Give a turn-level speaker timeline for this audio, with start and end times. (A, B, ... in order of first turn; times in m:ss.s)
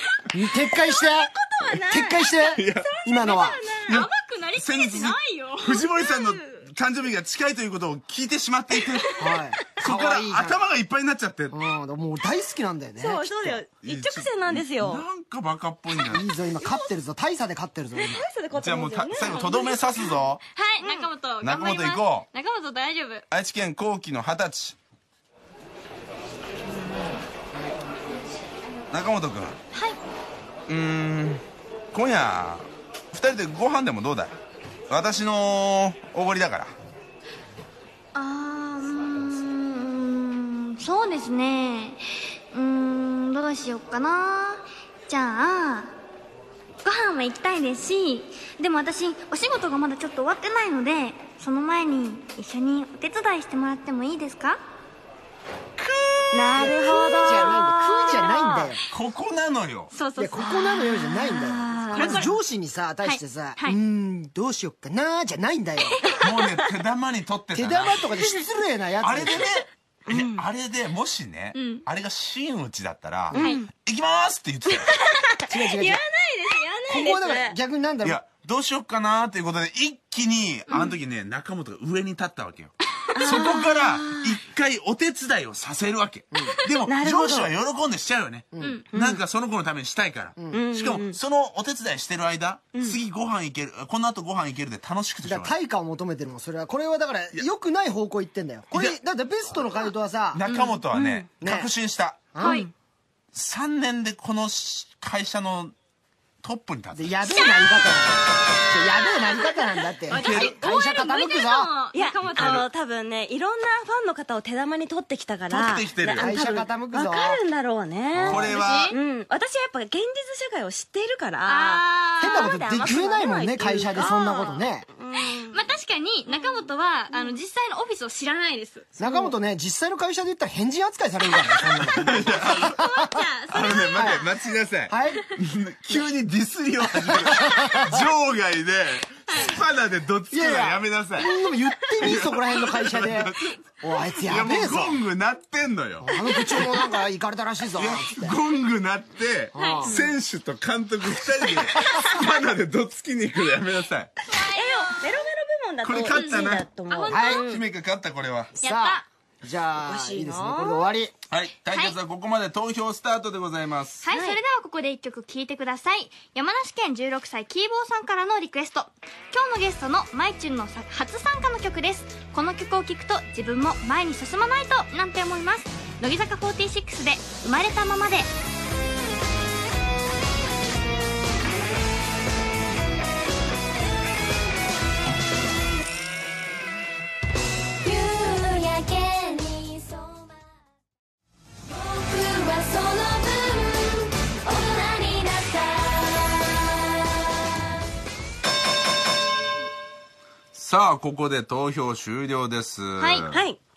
0:00.3-0:03.6 A
0:00.6-0:04.0 B
0:02.5-0:02.9 C
0:03.9-0:05.9 D
0:03.9-0:11.6 C
0:06.0-0:06.6 B
0:09.2-0:10.6 A
0:11.5-0:13.6 A
0:13.0-0:15.0 B
0:13.8-0:16.3 C
0:16.0-0:18.3 A
0:16.6-0:16.9 B
0:18.0-0:20.0 B
0:18.5-0:20.4 C
0:19.3-0:23.2 D
0:20.8-0:21.1 B
0:21.4-0:22.3 C
0:23.3-0:24.8 C
0:28.9-0:29.6 C
0:29.7-0:30.0 D
0:30.7-0:34.4 C
0:34.9-0:36.8 C
0:38.2-0:42.0 D
0:42.5-0:45.9 D
0:46.8-0:54.6 D
0:55.8-0:56.7 C
0:56.3-0:58.8 D
0:56.4-0:58.5 B
0:56.6-0:58.8 A
0:58.9-0:59.9 C
0:59.9-1:02.4 D
1:00.2-1:06.0 A
1:01.8-1:02.3 B
1:03.0-1:03.8 D
1:06.0-1:06.6 B
1:06.2-1:08.1 C
1:07.5-1:09.6 A
1:09.0-1:15.0 C
1:10.1-1:10.4 B
1:11.5-1:11.8 D
1:13.3-1:13.6 A
1:13.3-1:13.7 B
1:13.4-1:13.6 D
1:14.9-1:17.6 B
1:15.5-1:16.0 A
1:16.9-1:18.2 A
1:18.0-1:35.5 C
1:20.7-1:20.9 D
1:23.1-1:24.4 B
1:23.3-1:23.7 D
1:26.3-1:26.6 A
1:26.9-1:27.5 B
1:28.5-1:28.8 A
1:28.6-1:28.9 D
1:28.9-1:29.2 B
1:30.5-1:31.2 B
1:35.2-1:40.4 A
1:40.3-1:42.3 C
1:40.5-1:40.8 D
1:40.9-1:41.3 B
1:41.4-1:41.7 A
1:42.3-1:42.6 A
1:42.4-1:42.7 D
1:42.4-1:42.7 B
1:43.3-1:45.8 C
1:46.4-1:47.5 C
1:46.9-1:51.7 A
1:50.1-1:52.7 D
1:50.1-1:50.6 C
1:51.9-2:05.6 B
1:52.3-1:52.7 C
1:55.5-1:56.3 C
1:56.1-1:57.4 A
1:58.1-1:58.5 A
1:58.2-1:59.0 C
1:58.3-1:59.0 D
2:01.5-2:02.5 D
2:02.2-2:04.9 A
2:05.2-2:08.9 D
2:06.3-2:07.4 B
2:09.0-2:13.3 A
2:09.0-2:09.3 B
2:11.9-2:12.8 C
2:12.4-2:14.4 D
2:13.5-2:21.3 C
2:13.9-2:14.2 A
2:14.9-2:15.3 A
2:16.8-2:18.1 A
2:19.3-2:19.6 D
2:20.3-2:25.0 A
2:22.0-2:23.6 C
2:24.2-2:26.7 C
2:26.0-2:28.4 A
2:27.8-2:34.1 C
2:29.5-2:30.0 A
2:29.6-2:30.0 D
2:34.3-2:35.2 D
2:34.3-2:37.6 B
2:35.8-2:36.7 C
2:36.1-2:37.6 D
2:37.1-2:37.4 A
2:37.3-2:38.5 C
2:38.6-2:41.1 A
2:38.6-2:39.0 D
2:39.8-2:40.9 B
2:41.3-2:44.1 C
2:41.7-2:42.0 D
2:44.0-2:58.3 D
2:44.1-2:44.4 B
3:07.8-3:10.3 E
3:11.7-3:16.6 E
3:20.5-3:23.4 C
3:23.0-3:23.4 D
3:23.3-3:23.6 B